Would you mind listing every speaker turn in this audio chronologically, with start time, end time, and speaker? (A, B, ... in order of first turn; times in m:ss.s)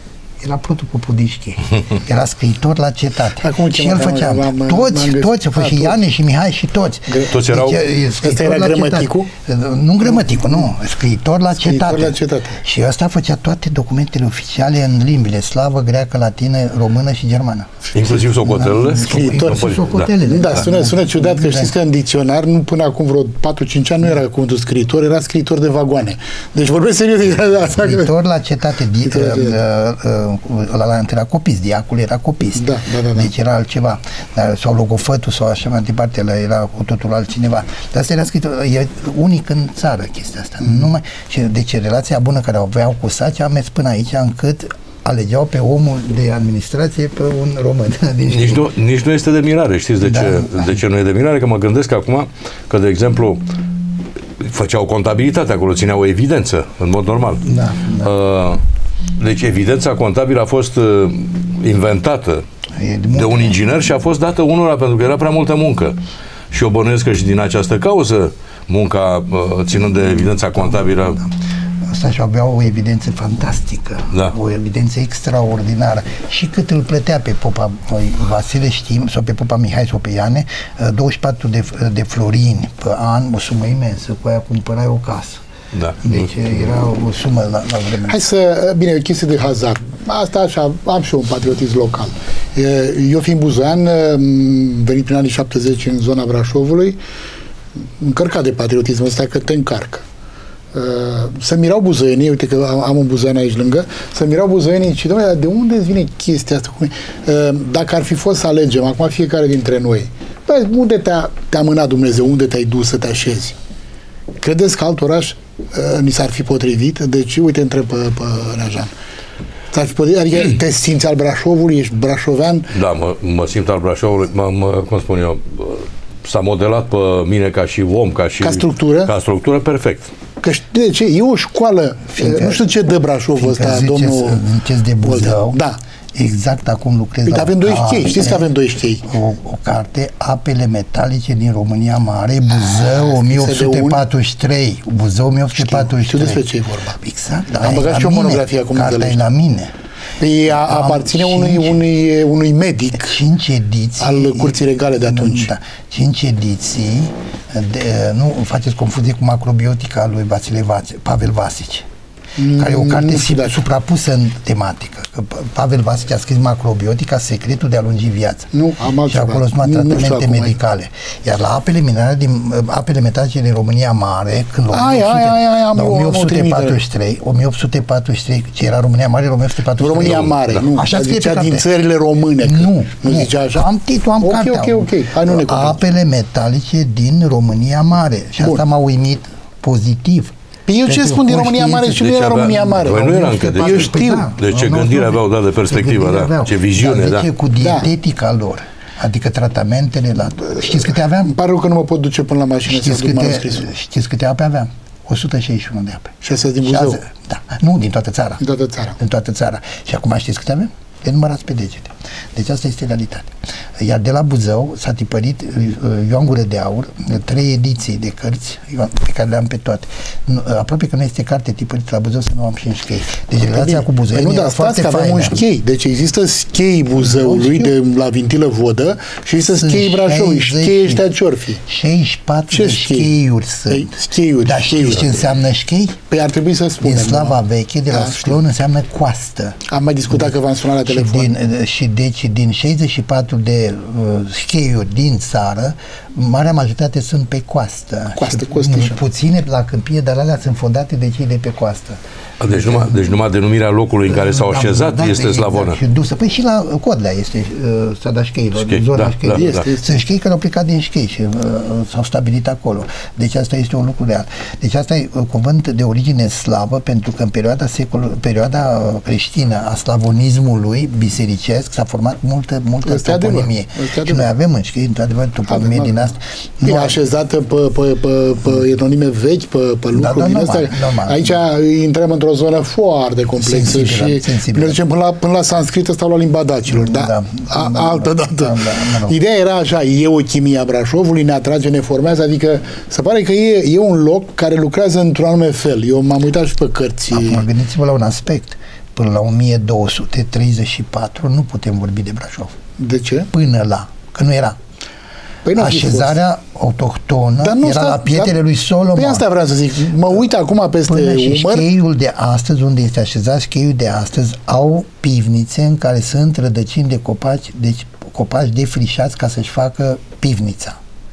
0:00.4-0:21.7 A
0:03.4-0:06.0 B
0:07.1-0:07.4 B
0:07.3-0:07.8 C
0:08.2-0:09.3 B
0:11.6-0:12.6 B
0:17.9-0:20.2 C
0:20.2-0:28.1 B
0:27.8-0:48.7 A
0:29.0-0:29.6 B
0:32.6-0:33.3 B
0:48.3-0:53.5 C
0:50.0-0:50.6 A
0:54.4-0:58.6 C
0:57.4-0:58.1 A
0:59.2-1:02.4 C
1:02.7-1:03.6 A
1:03.1-1:06.0 C
1:06.5-1:11.2 C
1:11.8-1:25.4 A
1:25.7-1:26.2 C
1:26.0-1:28.2 A
1:28.0-1:37.0 B
1:38.0-1:40.0 B
1:40.7-1:53.5 B
1:54.4-1:58.9 B
1:59.7-2:02.7 B
2:02.7-2:10.1 C
2:08.4-2:09.1 B
2:10.4-2:14.4 B
2:12.1-2:12.7 A
2:13.4-2:15.6 A
2:15.0-2:15.8 B
2:16.1-2:18.5 A
2:17.3-2:19.0 B
2:19.0-2:26.4 A
2:22.9-2:24.0 B
2:25.6-2:27.0 B
2:27.0-2:29.7 A
2:27.6-2:29.2 B
2:30.2-2:33.2 B
2:30.5-2:31.8 A
2:33.0-2:41.8 A
2:34.0-2:35.5 B
2:42.4-2:43.6 B
2:42.6-2:48.5 A
2:48.5-2:50.6 B
2:49.1-3:01.7 A
2:54.7-2:56.8 B
2:59.8-3:03.7 B
3:02.4-3:10.3 A
3:04.2-3:05.8 B
3:10.7-3:14.3 B
3:10.8-3:12.1 A
3:12.0-3:17.2 C
3:12.8-3:21.3 A
3:17.6-3:17.9 B
3:21.2-3:23.7 B
3:22.7-3:28.4 A
3:26.2-3:27.0 B
3:28.4-3:29.0 B
3:29.0-3:45.4 A
3:43.4-3:51.6 B
3:47.0-3:47.7 A
3:49.4-3:51.0 A
3:51.6-3:56.0 A
3:52.5-3:53.1 B
3:53.7-3:55.3 B
3:56.1-3:57.4 B
3:56.8-3:59.6 A
3:57.9-3:58.4 B
3:59.7-4:01.3 B
4:00.8-4:12.0 A
4:08.2-4:09.0 B
4:12.4-4:15.8 C
4:12.5-4:12.9 A
4:14.1-4:37.0 A
4:18.6-4:19.6 C
4:19.3-4:19.9 B
4:32.8-4:34.3 B
4:35.5-4:36.1 B
4:36.6-4:57.4 B
4:39.9-4:41.4 A
4:43.4-4:44.8 A
4:46.7-4:49.2 A
4:57.1-5:02.5 A
5:02.8-5:03.3 B
5:03.3-5:04.6 A
5:05.4-5:06.2 B
5:05.6-5:09.2 A
5:07.4-5:08.4 B
5:08.9-5:11.7 B
5:10.9-5:20.8 A